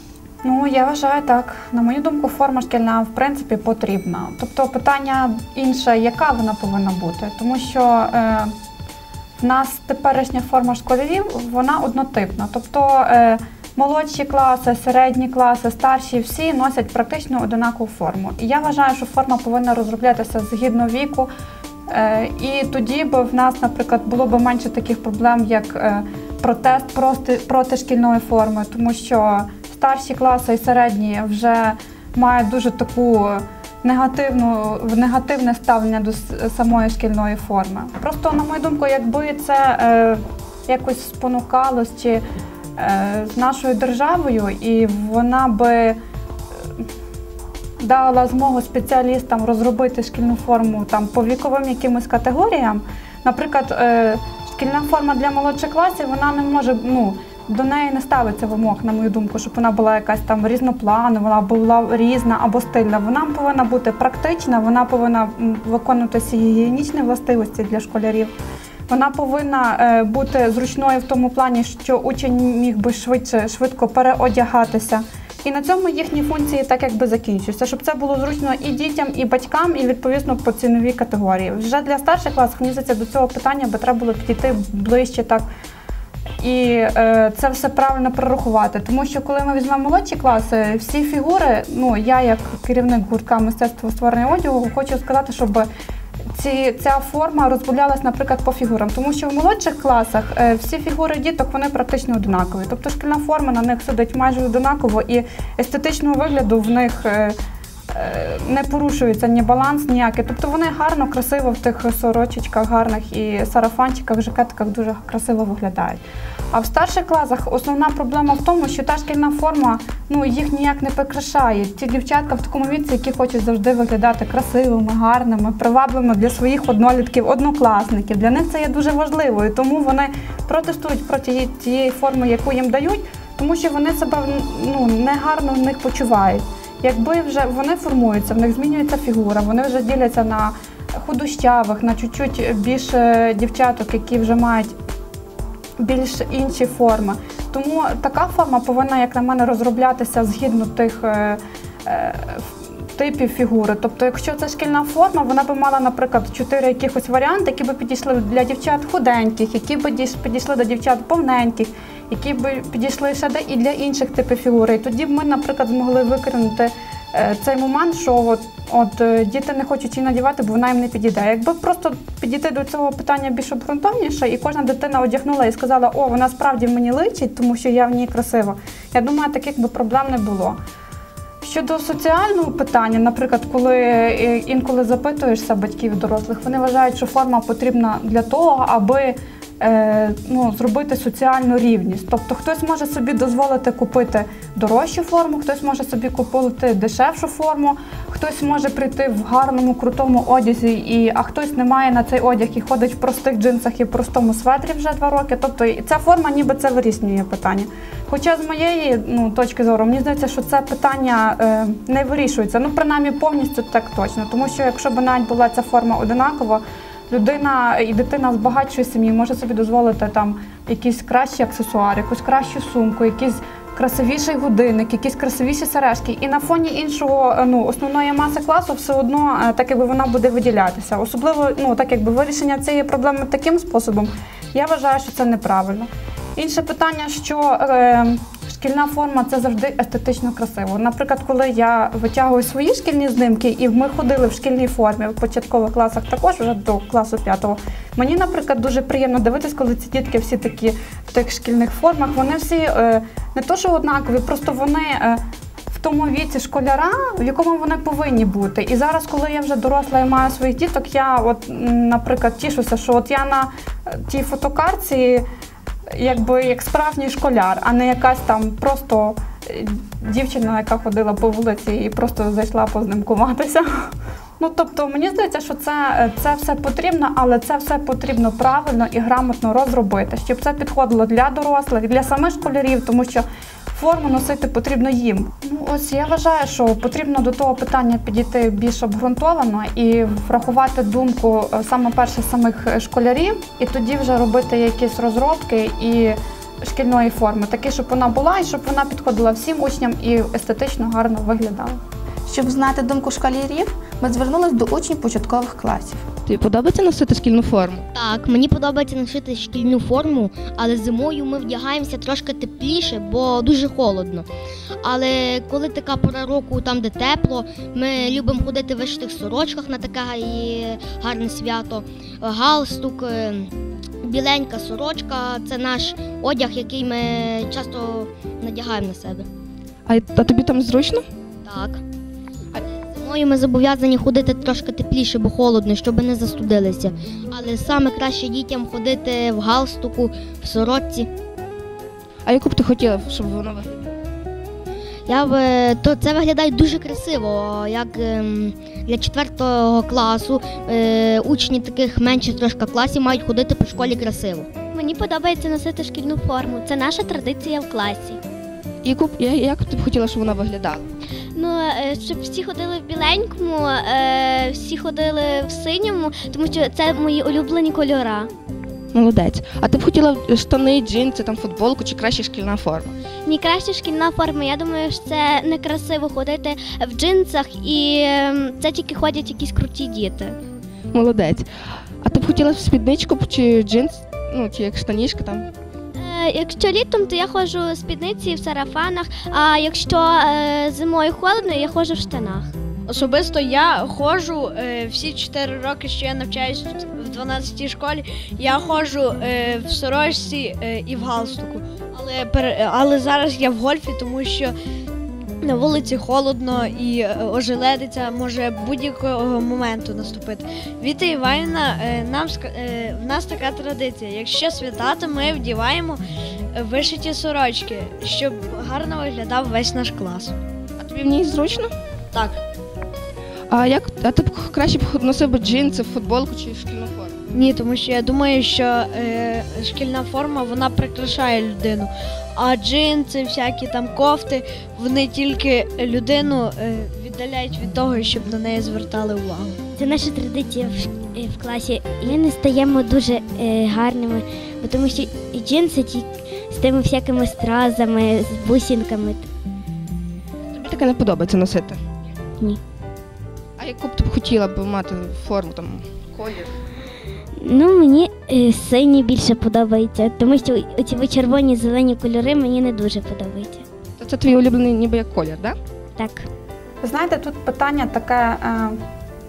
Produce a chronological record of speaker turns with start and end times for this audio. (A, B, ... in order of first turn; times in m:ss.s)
0:00.4-0:08.5 A
0:09.4-0:21.3 A
0:21.9-0:42.2 A
0:42.8-0:46.0 A
0:47.8-1:08.3 A
1:08.9-1:25.4 A
1:26.4-1:35.7 A
1:36.3-1:47.4 A
1:47.9-2:24.7 A
2:25.8-3:00.6 A
3:01.4-4:25.2 A
4:25.9-5:01.8 A
5:02.3-5:06.0 B
5:06.2-5:07.8 C
5:07.9-5:14.3 D
5:14.8-5:23.5 D
5:24.0-5:29.3 D
5:29.8-5:31.0 C
5:31.4-5:31.8 D
5:32.5-5:41.1 D
5:42.2-5:43.8 C
5:45.1-5:54.5 D
5:54.7-5:58.2 E
5:58.8-6:00.9 C
6:01.3-6:08.3 E
6:08.9-6:12.9 C
6:13.2-6:20.4 E
6:20.9-6:21.5 C
6:22.0-6:25.5 C
6:26.0-6:32.5 E
6:32.9-6:44.5 F
6:45.4-6:56.0 F
6:56.5-7:00.3 F
7:00.8-7:01.7 C
7:03.5-7:07.2 C
7:07.3-7:19.6 F
7:19.8-7:29.3 E
7:30.5-7:31.8 C
7:33.6-7:36.5 C
7:37.4-7:43.6 E
7:44.0-7:45.6 C
7:46.0-7:46.3 E
7:46.8-7:48.8 A